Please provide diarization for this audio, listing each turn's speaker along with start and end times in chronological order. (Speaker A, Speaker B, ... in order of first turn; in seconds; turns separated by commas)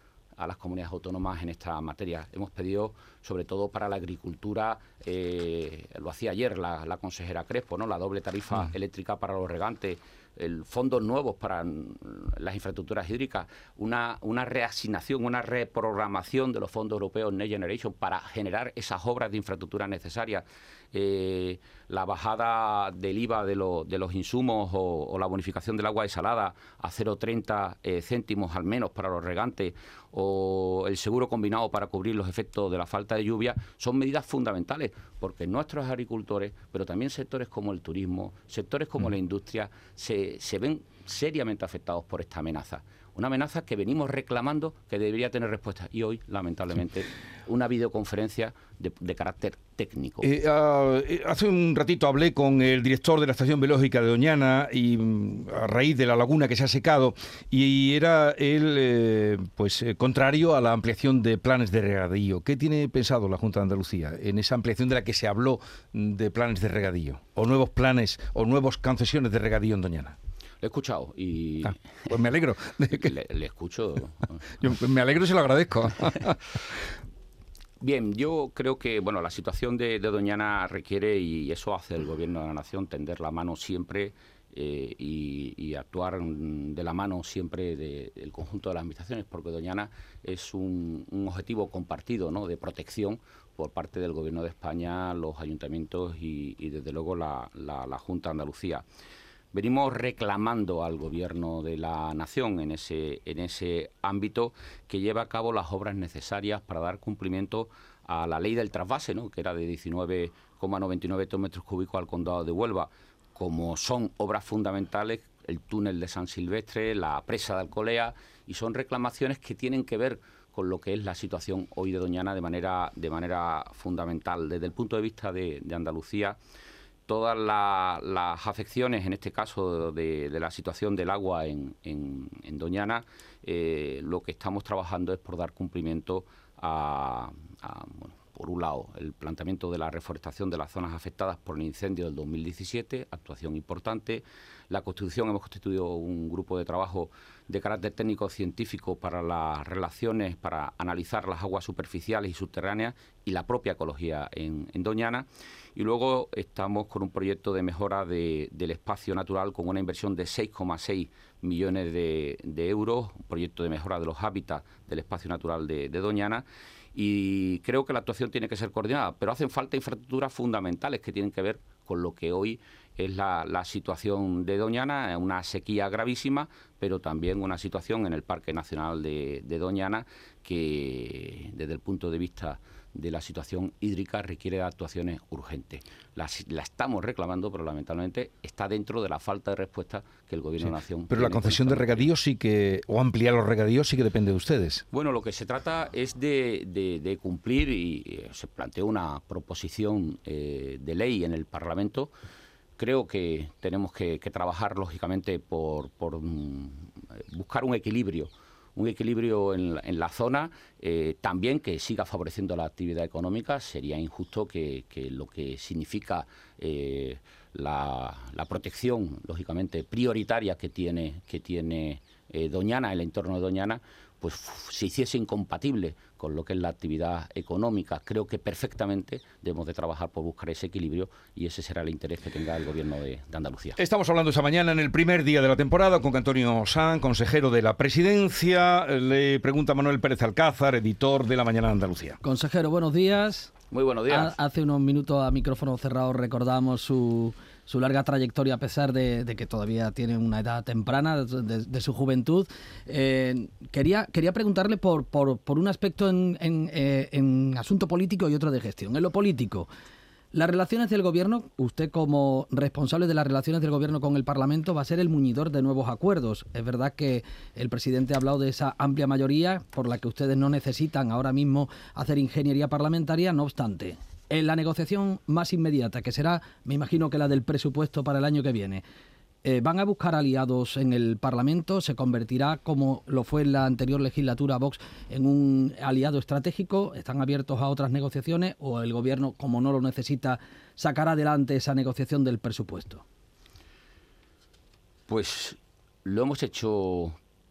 Speaker A: 0.4-50.3, Speaker B: 50.2-70.2, Speaker A: 70.6-72.1, Speaker B: 72.1-73.1, Speaker A: 72.9-74.4, Speaker B: 74.6-76.4, Speaker A: 77.8-98.8, Speaker A: 99.5-126.4, Speaker A: 127.1-192.1, Speaker B: 191.1-194.8, Speaker A: 194.9-202.1, Speaker A: 202.8-233.8, Speaker B: 233.8-242.2, Speaker C: 242.2-243.5, Speaker A: 243.7-244.3, Speaker C: 244.1-259.7, Speaker C: 260.3-278.8, Speaker C: 279.4-293.0, Speaker A: 295.1-297.2